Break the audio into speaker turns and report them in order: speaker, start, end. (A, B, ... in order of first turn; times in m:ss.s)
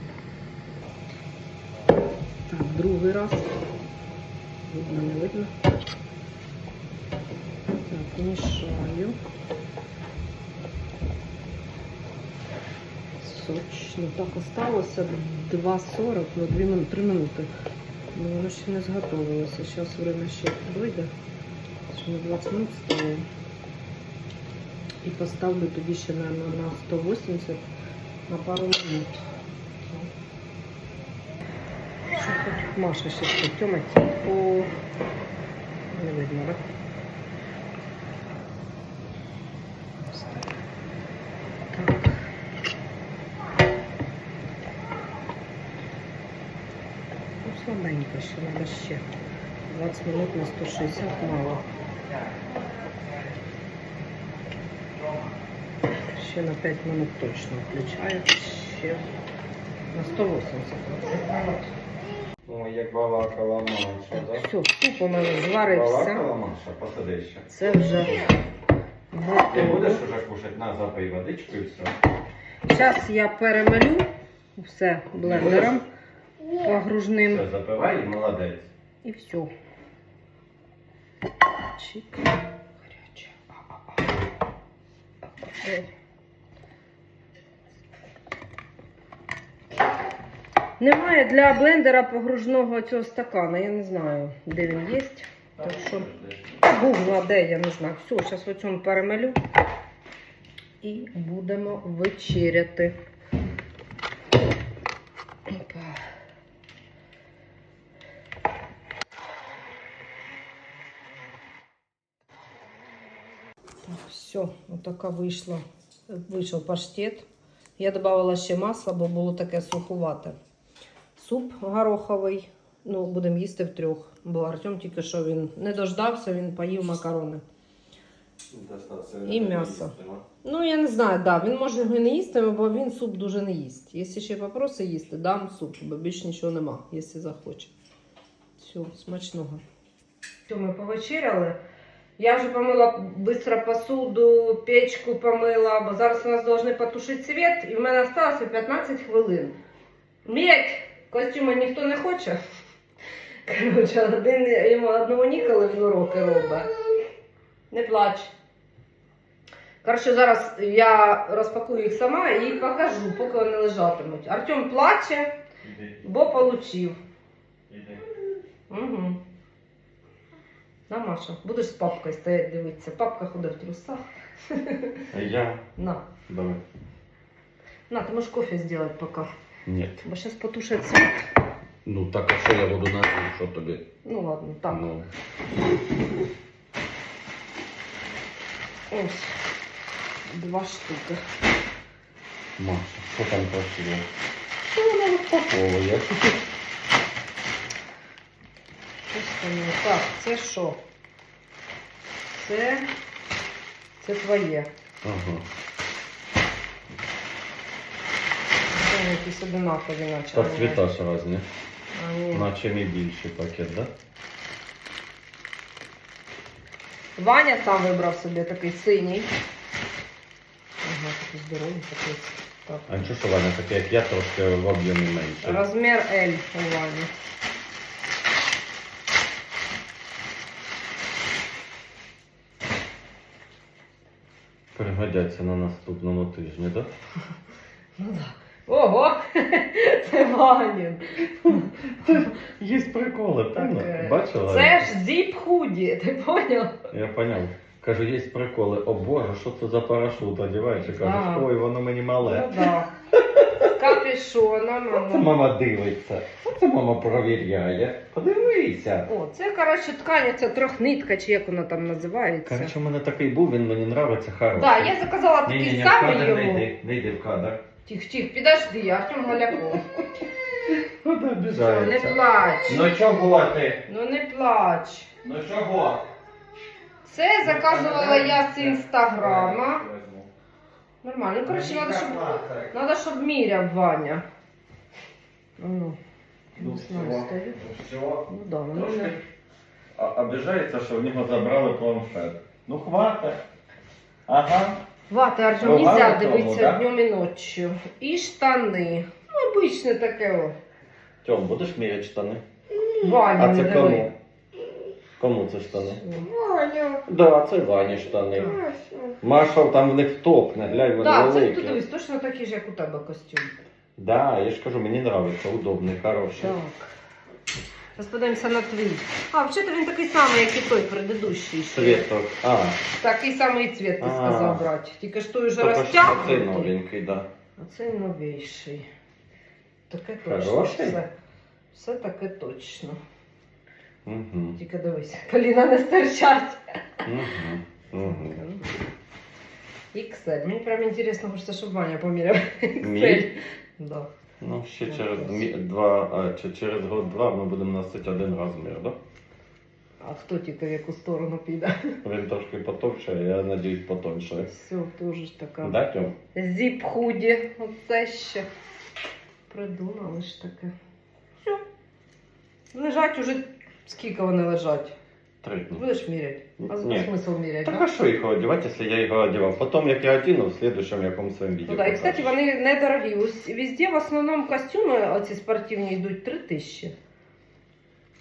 0:02.5-0:03.5 A
0:04.6-0:05.5 A
0:07.8-0:09.2 A
0:13.2-0:17.5 A
0:18.1-0:21.1 A
0:21.9-0:23.3 A
0:25.0-0:27.6 A
0:28.3-0:29.2 A
0:29.8-0:30.1 A
0:32.1-0:34.7 A
0:35.9-0:36.6 A
0:40.1-0:40.6 A
0:41.7-0:42.2 A
0:47.4-0:49.1 A
0:49.7-0:51.6 A
0:56.1-0:59.1 A
0:59.9-1:01.7 A
1:02.4-1:04.5 B
1:04.1-1:06.3 A
1:05.6-1:07.5 B
1:07.5-1:08.3 A
1:09.1-1:10.0 A
1:09.5-1:12.0 B
1:12.7-1:15.8 A
1:15.2-1:15.8 B
1:16.4-1:16.8 C
1:16.6-1:17.5 A
1:17.2-1:18.7 B
1:19.0-1:19.5 A
1:21.8-1:24.1 A
1:25.2-1:25.9 A
1:30.8-1:36.1 A
1:35.6-1:36.6 B
1:36.6-1:39.4 A
1:40.8-1:43.0 A
1:45.5-1:46.0 A
1:53.8-1:57.3 A
1:57.8-2:00.4 A
2:01.2-2:07.4 A
2:08.5-2:10.2 B
2:09.2-2:17.7 A
2:18.6-2:19.6 A
2:20.5-2:21.6 A
2:22.2-2:29.6 A
2:30.2-2:32.4 A
2:33.5-2:36.7 A
2:37.7-2:38.3 A
2:39.8-2:45.4 A
2:45.6-2:46.3 B
2:46.0-2:47.0 A
2:47.7-2:48.0 B
2:48.7-2:49.2 A
2:50.9-2:55.1 A
2:55.1-2:55.6 B
2:55.8-2:56.0 A
2:56.3-2:56.6 B
2:57.9-2:59.3 A
2:59.7-3:00.0 B
3:00.0-3:01.3 A
3:01.8-3:03.9 B
3:04.0-3:04.9 A
3:04.7-3:05.1 B
3:08.9-3:09.4 A
3:10.3-3:11.2 A
3:12.6-3:14.1 B
3:14.7-3:15.3 A
3:15.2-3:16.4 B
3:19.1-3:20.8 A
3:22.4-3:22.9 A
3:24.0-3:24.7 A
3:25.0-3:25.4 B
3:28.8-3:30.8 A
3:30.3-3:31.5 B
3:31.9-3:32.5 A
3:32.3-3:33.9 B
3:37.2-3:39.3 A
3:40.8-3:43.1 A
3:42.9-3:45.6 B
3:45.4-3:47.1 A
3:54.7-3:56.9 B
3:58.0-4:02.1 A
4:02.0-4:04.9 B
4:03.6-4:06.9 A
4:06.9-4:13.8 B
4:10.9-4:11.5 A
4:12.2-4:12.9 A
4:13.6-4:15.3 A
4:14.9-4:19.1 B
4:19.1-4:22.8 A
4:22.5-4:27.6 B
4:24.6-4:26.7 A
4:27.9-4:30.0 A
4:30.7-4:33.8 B
4:31.5-4:32.8 A
4:33.9-4:35.1 A
4:35.2-4:36.1 B
4:37.1-4:39.8 A
4:37.4-4:40.3 B
4:41.0-4:44.2 A
4:41.5-4:42.7 B
4:45.6-4:46.0 A
4:46.6-4:47.6 A
4:46.6-4:49.2 B
4:48.3-4:49.2 A
4:50.0-4:53.4 B
4:54.3-4:54.8 B
4:55.1-5:00.6 A
4:55.6-4:56.8 B
5:01.2-5:02.4 B
5:02.8-5:03.1 C
5:03.0-5:04.1 A
5:03.4-5:04.1 B
5:05.2-5:06.0 B
5:05.8-5:06.3 A
5:06.3-5:07.0 C
5:07.1-5:08.6 B
5:08.4-5:08.6 A
5:08.4-5:09.2 C
5:09.2-5:11.8 B
5:11.0-5:13.6 A
5:14.0-5:16.6 B
5:16.4-5:16.9 A
5:18.0-5:22.1 A
5:21.7-5:22.8 B
5:22.9-5:26.7 A
5:24.0-5:24.7 B
5:25.6-5:27.3 B
5:27.6-5:28.9 A
5:29.9-5:31.1 A
5:30.2-5:31.0 B
5:31.7-5:33.0 A
5:34.0-5:34.6 B
5:34.6-5:36.6 A
5:37.0-5:38.4 B
5:38.0-5:38.7 A
5:39.9-5:44.1 A
5:42.8-5:43.3 B
5:44.4-5:49.0 B
5:44.9-5:45.6 A
5:50.0-5:52.0 A
5:52.0-5:54.5 B
5:54.5-5:55.8 A
5:55.6-5:56.2 B
5:56.3-5:58.5 A
5:59.5-6:00.7 A
6:02.7-6:05.0 A
6:05.4-6:05.8 B
6:05.8-6:07.9 A
6:06.6-6:07.1 B
6:07.6-6:12.3 B
6:11.7-6:16.9 A